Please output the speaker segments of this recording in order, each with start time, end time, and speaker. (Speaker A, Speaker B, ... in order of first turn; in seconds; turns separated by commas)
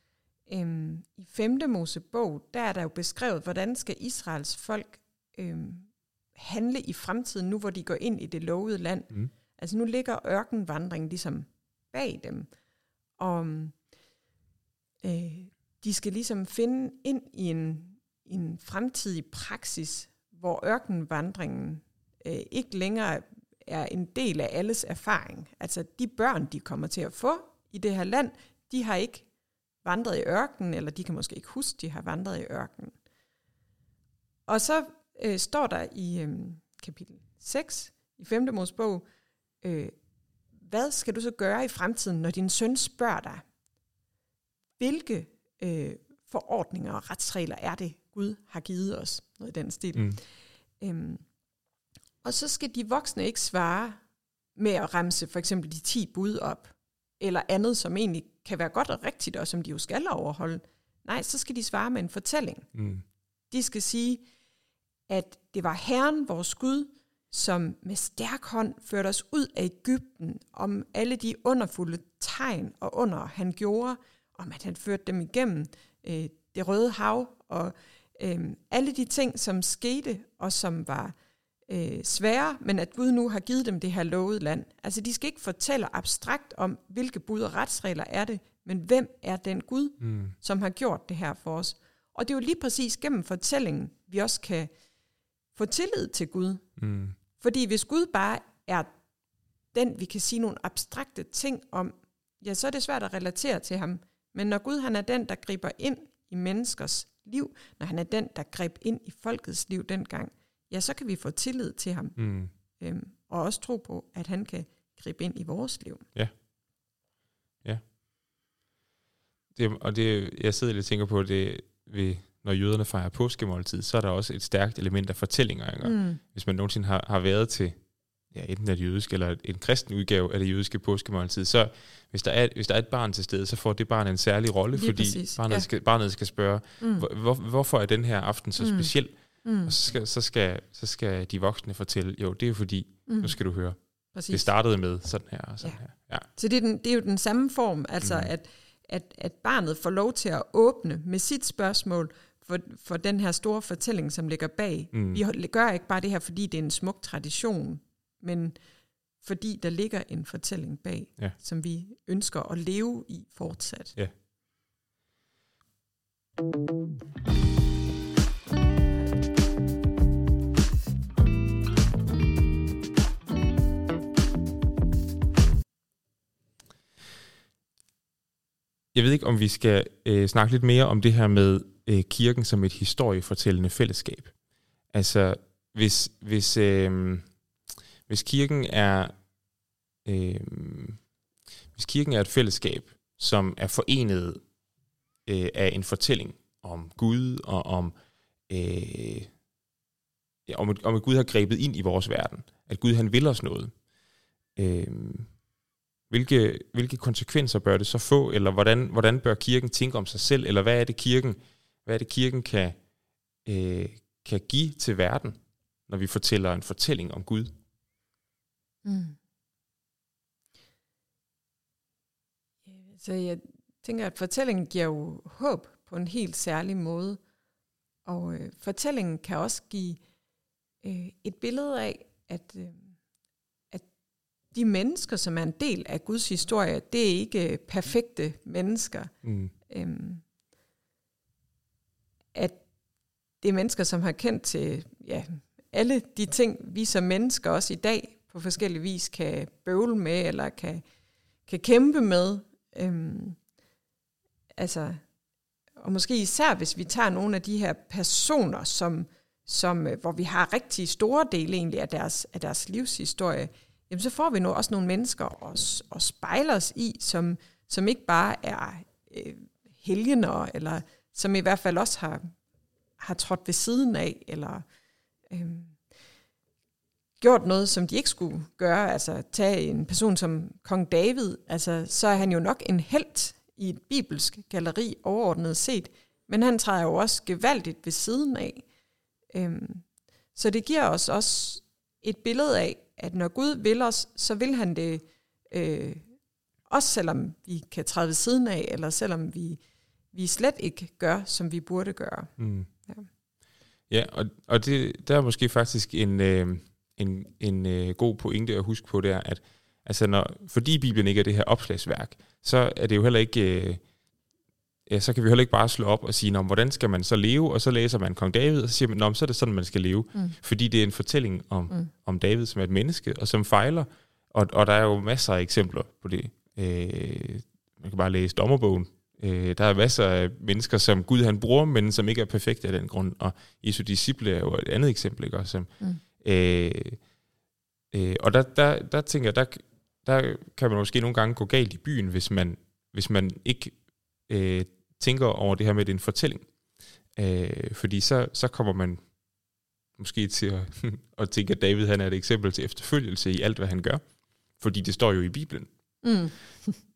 Speaker A: 0.5-12.5, Speaker A: 13.2-13.8, Speaker A: 15.0-29.3, Speaker A: 29.8-33.0, Speaker A: 34.5-39.0, Speaker A: 39.6-39.9, Speaker A: 40.6-43.4, Speaker A: 44.8-50.2, Speaker B: 50.0-50.2, Speaker A: 50.8-51.2, Speaker A: 52.2-54.0, Speaker A: 54.6-62.7, Speaker B: 62.8-63.0, Speaker A: 63.5-64.2, Speaker A: 65.1-81.2, Speaker A: 81.7-94.7, Speaker B: 90.0-90.3, Speaker A: 95.5-96.6, Speaker B: 96.8-97.2, Speaker A: 97.4-98.9, Speaker A: 99.7-112.2, Speaker B: 112.2-112.5, Speaker A: 112.8-116.1, Speaker B: 119.5-127.8, Speaker A: 125.8-126.2, Speaker B: 128.3-143.8, Speaker A: 134.7-135.7, Speaker A: 136.8-137.1, Speaker A: 138.6-138.9, Speaker A: 139.4-139.7, Speaker A: 143.1-143.3, Speaker A: 144.1-144.5, Speaker B: 144.3-146.3, Speaker A: 146.3-158.6, Speaker B: 148.0-148.3, Speaker B: 154.9-155.2, Speaker A: 159.2-164.0, Speaker B: 178.9-184.3, Speaker B: 184.9-187.3, Speaker B: 188.1-189.1, Speaker B: 190.1-191.0, Speaker B: 191.8-194.4, Speaker B: 195.3-197.9, Speaker B: 198.5-199.3, Speaker B: 200.5-203.7, Speaker B: 204.6-205.3, Speaker B: 206.1-212.8, Speaker B: 213.4-217.5, Speaker A: 218.8-219.2, Speaker A: 222.7-227.2, Speaker A: 228.1-230.0, Speaker A: 230.8-232.9, Speaker A: 234.5-239.1, Speaker B: 239.2-239.5, Speaker A: 239.7-240.2, Speaker A: 242.3-242.6, Speaker A: 243.4-250.8, Speaker A: 251.5-253.4, Speaker A: 254.6-255.0, Speaker A: 255.8-272.3, Speaker A: 273.0-274.6, Speaker A: 275.3-275.8, Speaker A: 277.2-288.6, Speaker A: 289.3-296.1, Speaker A: 296.7-299.6, Speaker A: 300.1-302.3, Speaker B: 302.4-302.7, Speaker B: 303.9-313.8, Speaker B: 314.9-337.0, Speaker B: 337.9-346.5, Speaker B: 347.2-349.0, Speaker B: 350.0-354.0, Speaker B: 354.6-355.7, Speaker A: 356.0-356.8